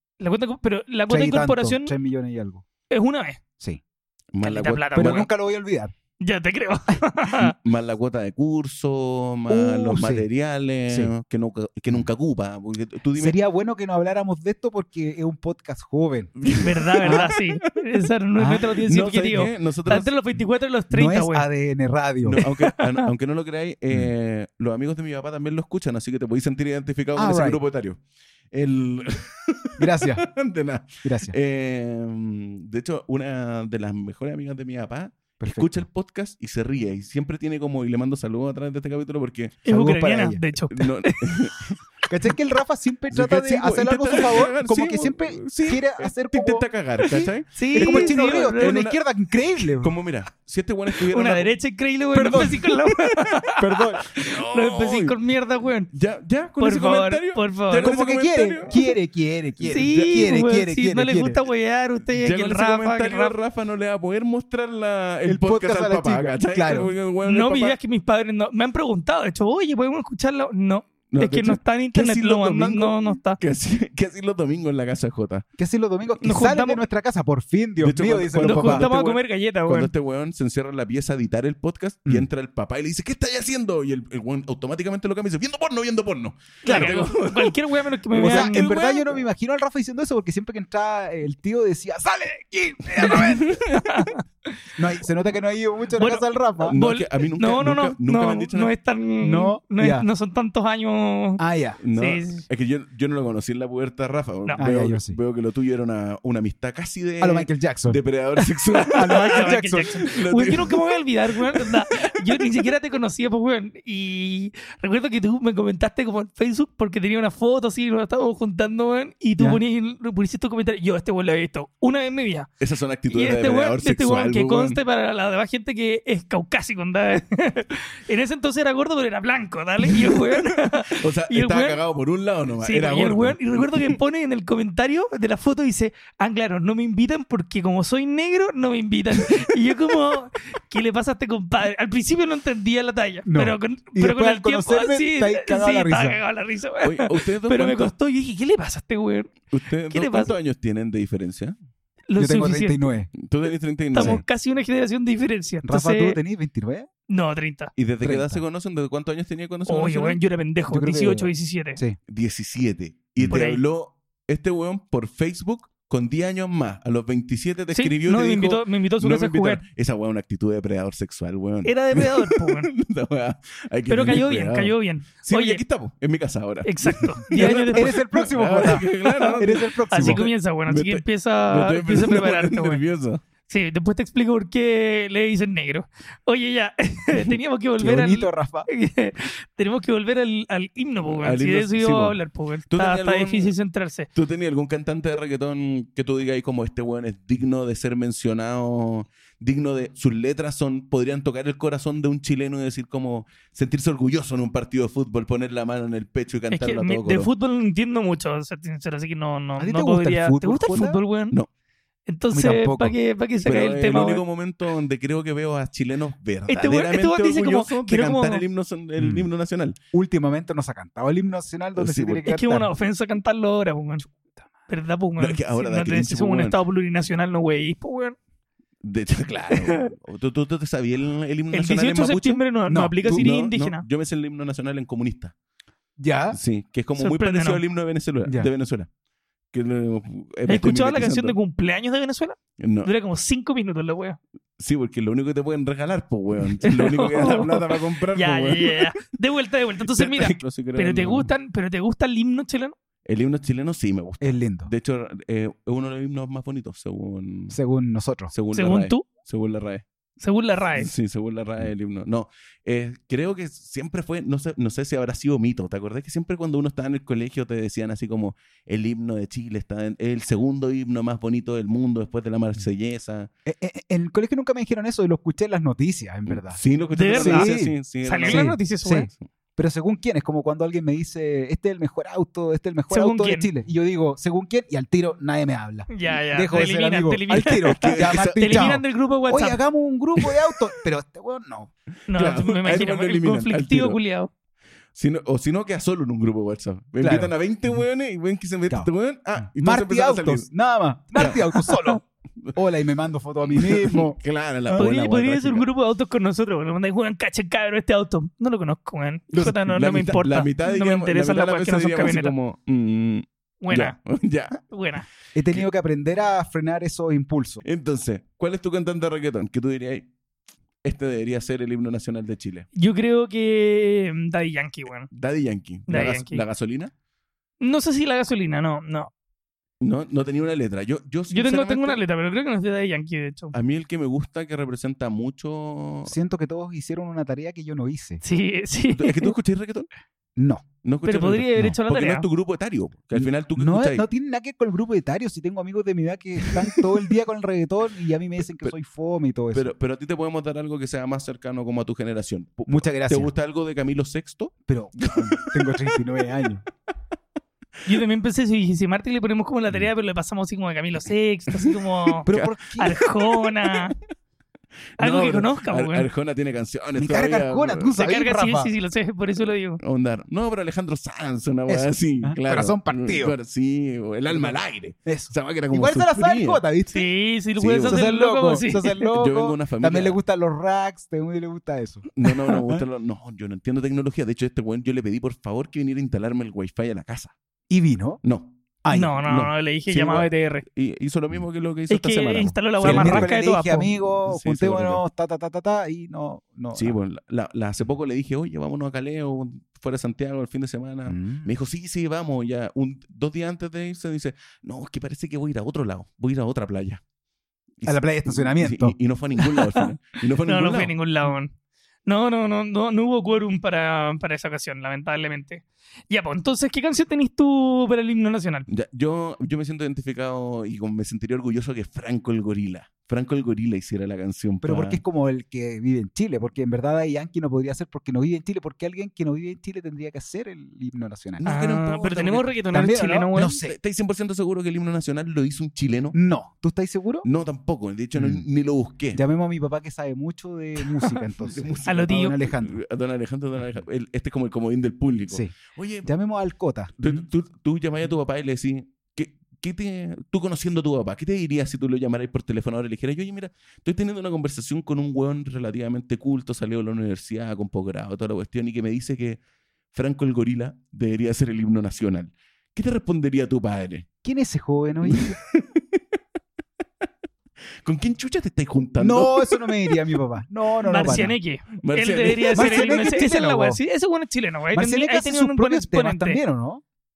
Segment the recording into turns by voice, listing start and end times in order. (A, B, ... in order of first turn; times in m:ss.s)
0:00.2-0:01.9 A
0:01.1-0:02.6 B
0:02.9-0:03.4 A
0:04.3-0:05.3 C
0:04.4-0:05.3 A
0:04.9-0:05.9 B
0:06.2-0:07.5 A
0:07.3-0:13.4 C
0:09.5-0:10.2 B
0:13.2-0:16.3 B
0:16.4-0:17.6 C
0:16.6-0:21.5 A
0:17.0-0:17.3 B
0:18.4-0:18.8 B
0:18.8-0:20.1 C
0:20.9-0:22.4 B
0:22.2-0:28.0 C
0:22.4-0:23.1 A
0:27.2-0:27.6 B
0:28.5-0:39.6 C
0:29.8-0:30.3 B
0:31.0-0:31.4 B
0:35.4-0:35.8 B
0:39.6-0:40.4 B
0:39.6-0:41.5 A
0:40.7-0:41.8 C
0:42.1-0:49.9 B
0:43.1-0:49.0 C
0:47.6-0:48.9 A
0:49.8-0:51.5 C
0:51.0-0:55.9 A
0:52.1-0:52.6 B
0:52.1-0:53.4 C
0:53.6-0:54.0 B
0:54.0-0:55.2 C
0:55.9-0:58.9 C
0:56.6-0:57.9 A
0:57.7-1:01.4 B
0:59.6-1:00.2 C
0:59.6-1:03.3 A
1:02.1-1:07.8 C
1:05.2-1:06.9 B
1:07.2-1:13.4 A
1:11.1-1:15.4 C
1:15.6-1:18.9 B
1:16.2-1:16.8 A
1:17.8-1:29.2 C
1:18.4-1:19.9 A
1:26.6-1:28.7 A
1:26.7-1:26.9 B
1:28.1-1:33.6 B
1:33.0-1:34.1 C
1:33.0-1:34.2 A
1:34.8-1:36.8 B
1:36.0-1:41.4 A
1:36.6-1:38.7 C
1:39.2-1:40.1 B
1:41.4-1:41.8 B
1:41.8-1:51.0 C
1:41.9-1:42.4 A
1:44.6-1:45.2 B
1:47.2-1:48.0 B
1:48.7-2:02.5 A
1:48.9-1:50.0 B
1:51.5-1:52.4 C
2:02.6-2:04.8 C
2:03.1-2:11.8 A
2:09.9-2:14.0 C
2:12.6-2:30.3 A
2:23.2-2:26.2 B
2:26.8-2:27.9 C
2:29.5-2:31.5 C
2:32.1-2:32.9 A
2:32.2-2:33.1 B
2:33.2-2:34.2 C
2:33.9-2:36.2 A
2:33.9-2:34.2 B
2:35.6-2:36.9 B
2:37.1-2:37.7 A
2:37.8-2:40.2 C
2:38.0-2:38.4 B
2:39.7-2:41.8 A
2:40.7-2:42.0 B
2:42.1-3:03.2 C
2:43.3-2:43.6 A
2:47.7-2:49.6 A
2:51.6-2:52.7 A
2:53.9-2:55.6 A
2:56.6-2:58.0 A
2:57.3-3:00.2 B
2:58.7-3:02.8 A
3:03.5-3:14.1 A
3:07.8-3:08.7 B
3:11.0-3:12.2 C
3:12.7-3:13.5 C
3:14.1-3:27.3 C
3:26.5-3:31.4 A
3:29.6-3:31.0 B
3:32.1-3:34.2 A
3:32.3-3:33.0 B
3:33.4-3:39.8 C
3:36.5-3:38.4 A
3:39.0-3:39.3 B
3:39.9-3:42.7 B
3:41.8-3:42.3 C
3:42.2-3:44.0 A
3:44.1-3:44.4 B
3:44.7-3:48.2 A
3:45.2-3:46.6 C
3:48.8-3:52.4 C
3:49.5-3:49.9 A
3:51.5-3:53.8 A
3:52.7-3:53.2 B
3:53.0-3:55.3 C
3:56.0-3:56.4 B
3:56.3-3:58.9 C
3:57.0-3:57.6 A
3:59.5-4:01.4 C
4:00.5-4:04.2 A
4:02.6-4:02.9 C
4:04.6-4:09.0 C
4:06.6-4:12.8 A
4:09.8-4:11.3 C
4:13.0-4:17.6 C
4:14.2-4:14.7 B
4:17.5-4:18.3 B
4:18.3-4:19.8 C
4:18.5-4:19.0 A
4:20.2-4:20.9 A
4:20.7-4:33.3 C
4:33.4-4:36.6 B
4:36.3-4:38.6 C
4:36.9-4:39.1 A
4:37.2-4:51.7 B
4:42.9-4:43.5 A
4:45.9-4:49.6 A
4:47.7-4:48.8 C
4:52.1-4:54.3 A
4:52.1-4:54.0 C
4:54.9-5:00.5 C
4:57.0-4:57.8 B
4:58.7-5:02.0 B
5:01.2-5:02.0 A
5:02.5-5:04.2 B
5:03.5-5:05.6 C
5:04.7-5:12.3 A
5:09.3-5:14.6 C
5:13.6-5:14.0 A
5:14.7-5:15.0 A
5:15.3-5:17.6 B
5:17.6-5:20.1 C
5:20.8-5:22.7 C
5:22.7-5:25.1 A
5:25.1-5:26.9 C
5:25.9-5:26.4 A
5:27.6-5:29.1 A
5:29.8-5:32.0 C
5:31.3-5:33.5 A
5:33.5-5:36.1 C
5:36.0-5:38.2 B
5:38.2-5:39.4 A
5:38.9-5:39.9 C
5:40.4-5:40.6 B
5:40.8-5:44.0 C
5:41.0-5:42.2 A
5:43.1-5:49.7 B
5:49.5-5:55.8 C
5:52.7-5:53.3 B
5:54.7-5:56.6 B
5:57.8-6:04.0 A
6:01.6-6:03.9 C
6:02.2-6:03.0 B
6:05.0-6:06.1 A
6:05.0-6:07.9 C
6:07.0-6:08.7 B
6:08.0-6:09.8 A
6:09.8-6:16.6 C
6:11.7-6:13.4 B
6:14.3-6:17.1 B
6:16.9-6:19.1 A
6:17.6-6:18.0 C
6:17.8-6:22.8 B
6:19.1-6:20.2 C
6:22.1-6:27.3 C
6:27.7-6:28.2 B
6:28.2-6:28.6 C
6:28.8-6:29.3 B
6:28.9-6:30.6 A
6:29.2-6:33.3 C
6:31.9-6:33.9 A
6:32.8-6:37.0 B
6:34.2-6:35.0 C
6:36.7-6:47.0 C
6:41.1-6:41.5 B
6:47.8-6:50.9 C
6:47.8-6:49.0 B
6:49.4-6:49.9 A
6:50.4-6:51.5 A
6:52.0-6:58.7 A
6:58.7-7:05.0 C
7:04.6-7:11.5 B
7:11.4-7:12.5 C
7:11.4-7:13.6 A
7:12.7-7:13.7 B
7:13.4-7:16.2 C
7:16.1-7:17.2 B
7:17.2-7:19.2 C
7:18.2-7:18.4 B
7:19.1-7:22.8 B
7:21.4-7:26.1 C
7:21.9-7:22.4 A
7:26.0-7:27.1 B
7:27.0-7:39.4 C
7:39.9-7:44.1 C
7:44.2-7:45.4 B
7:45.0-7:46.2 C
7:47.8-7:50.0 C
7:49.0-7:51.4 B
7:50.8-7:56.4 A
7:51.8-7:53.2 C
7:52.5-7:53.8 B
7:54.7-7:56.8 B